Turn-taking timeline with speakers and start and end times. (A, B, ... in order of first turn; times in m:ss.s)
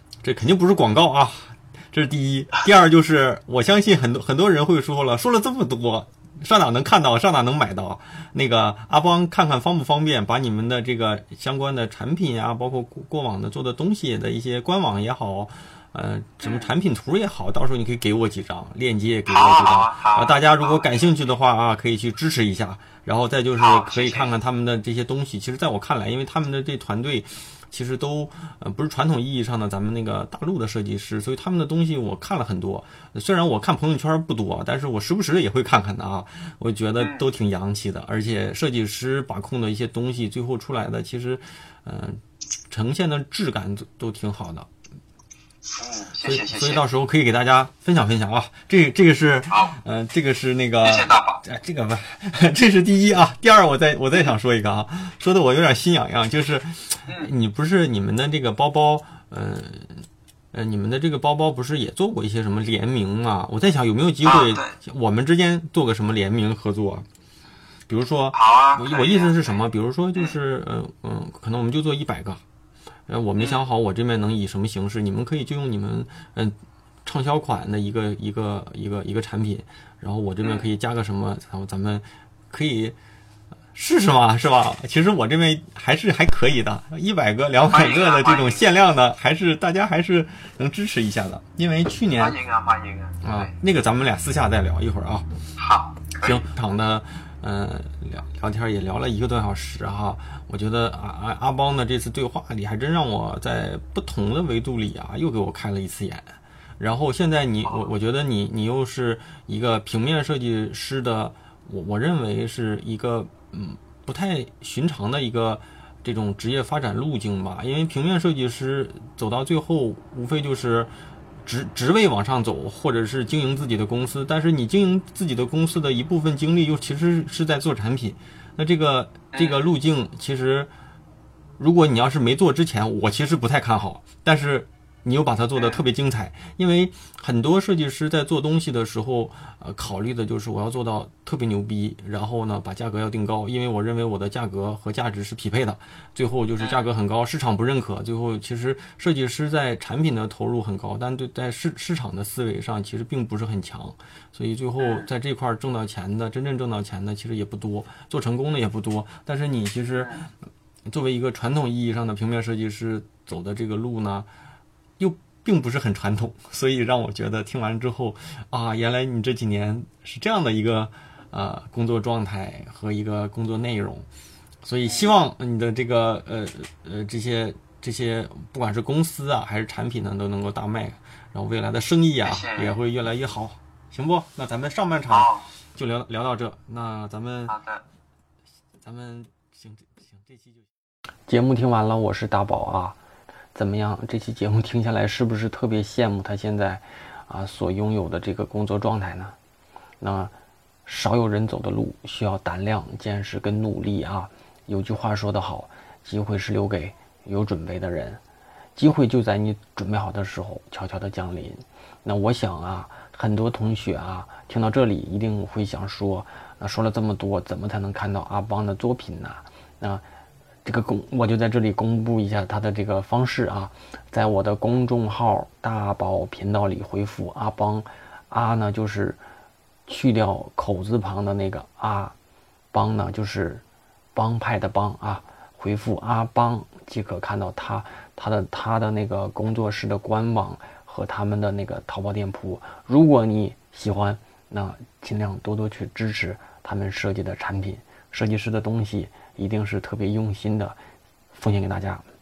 0:00.2-0:44.7 A
0:16.4-0:16.7 B
0:19.3-0:21.1 B
0:23.6-0:24.3 B
0:45.8-0:46.8 B
0:46.2-1:07.1 A
0:49.5-0:49.8 B
0:50.8-0:51.4 B
1:04.2-1:04.8 B
1:07.9-1:12.4 A
1:08.3-1:09.6 B
1:13.1-1:23.0 A
1:20.4-1:20.7 B
1:23.7-1:32.4 A
1:27.7-1:28.7 B
1:32.2-1:33.5 B
1:33.2-1:35.3 A
1:35.6-1:36.4 B
1:36.2-2:00.9 A
1:47.6-1:47.9 B
2:01.4-2:10.7 A
2:11.6-2:40.2 A
2:15.6-2:15.8 B
2:34.8-2:35.1 B
2:40.0-2:40.3 B
2:40.9-2:44.3 A
2:45.0-2:54.1 A
2:54.6-3:07.5 A
3:02.2-3:02.8 B
3:05.1-3:05.5 B
3:07.5-3:07.8 B
3:08.8-3:10.7 A
3:11.3-3:13.0 C
3:13.5-3:19.3 C
3:20.0-3:20.3 C
3:20.9-3:28.2 C
3:28.8-3:40.0 C
3:40.6-3:49.2 C
3:49.9-3:52.1 C
3:52.7-3:53.6 C
3:54.2-4:10.8 C
4:11.4-4:12.0 C